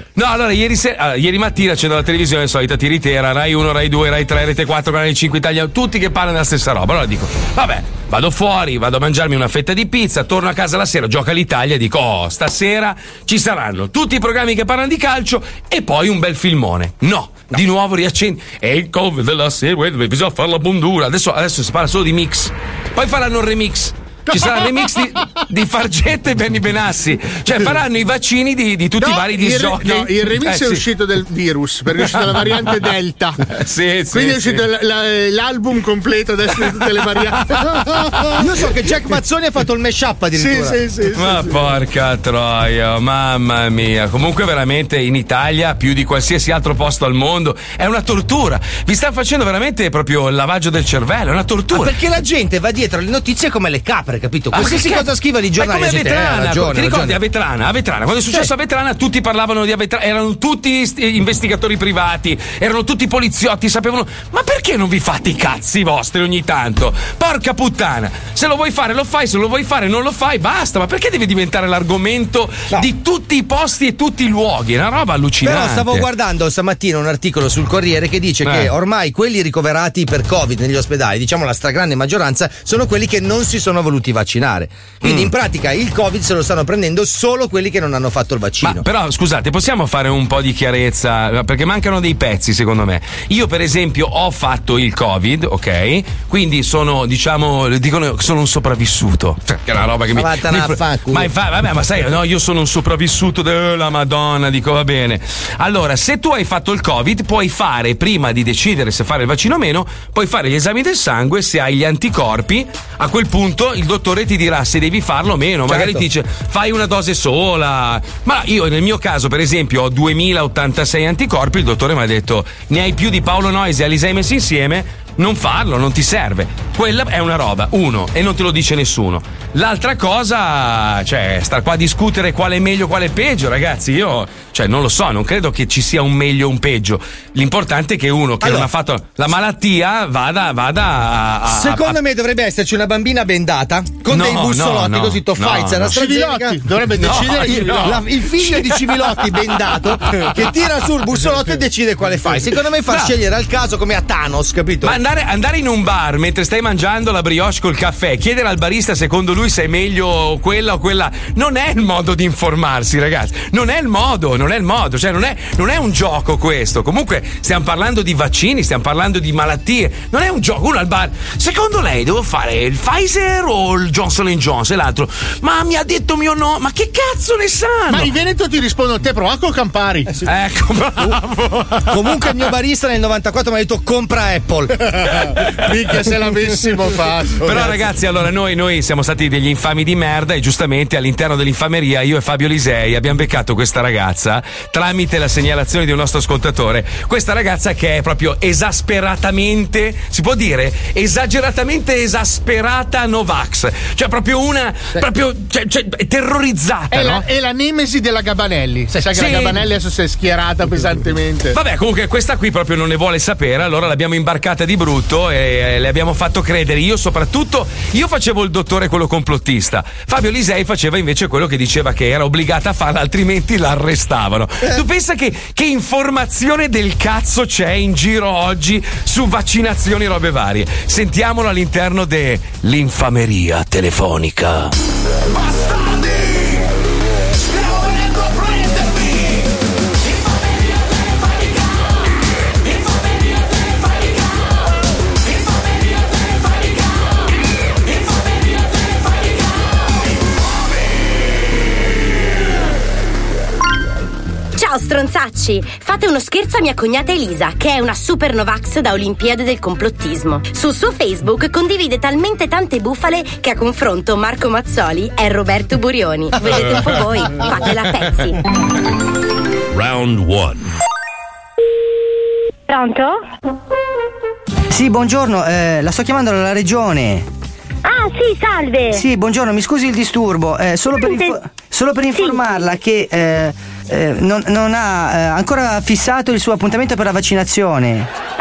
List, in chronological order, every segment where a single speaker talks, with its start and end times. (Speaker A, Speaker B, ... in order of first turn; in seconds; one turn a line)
Speaker A: 0.1-30.8
Speaker B: 24.3-25.4
Speaker B: 29.0-33.4
Speaker A: 32.0-32.9
Speaker A: 33.5-34.6
Speaker B: 34.1-38.9
Speaker A: 37.5-38.3
Speaker C: 38.4-40.8
Speaker B: 40.4-41.6
Speaker A: 41.1-52.0
Speaker C: 51.7-57.2
Speaker A: 54.5-76.1
Speaker C: 75.4-88.8
Speaker A: 78.4-78.7
Speaker A: 85.0-85.3
Speaker A: 88.6-142.0
Speaker C: 100.1-101.3
Speaker C: 115.7-116.0
Speaker C: 138.4-138.7
Speaker C: 141.5-155.0
Speaker A: 144.1-146.1
Speaker B: 145.9-148.1
Speaker A: 147.0-150.4
Speaker A: 154.8-178.1
Speaker B: 177.9-180.2
Speaker A: 180.2-182.3
Speaker C: 181.9-184.9
Speaker B: 185.1-187.8
Speaker A: 187.4-207.2
Speaker B: 206.9-211.6
Speaker A: 209.1-209.6
Speaker A: 211.5-234.7
Speaker D: 254.6-268.4
Speaker E: 272.7-273.2
Speaker F: 274.7-277.3
Speaker E: 277.9-279.0
Speaker F: 278.9-288.1
Speaker E: 280.9-281.4
Speaker E: 282.1-282.4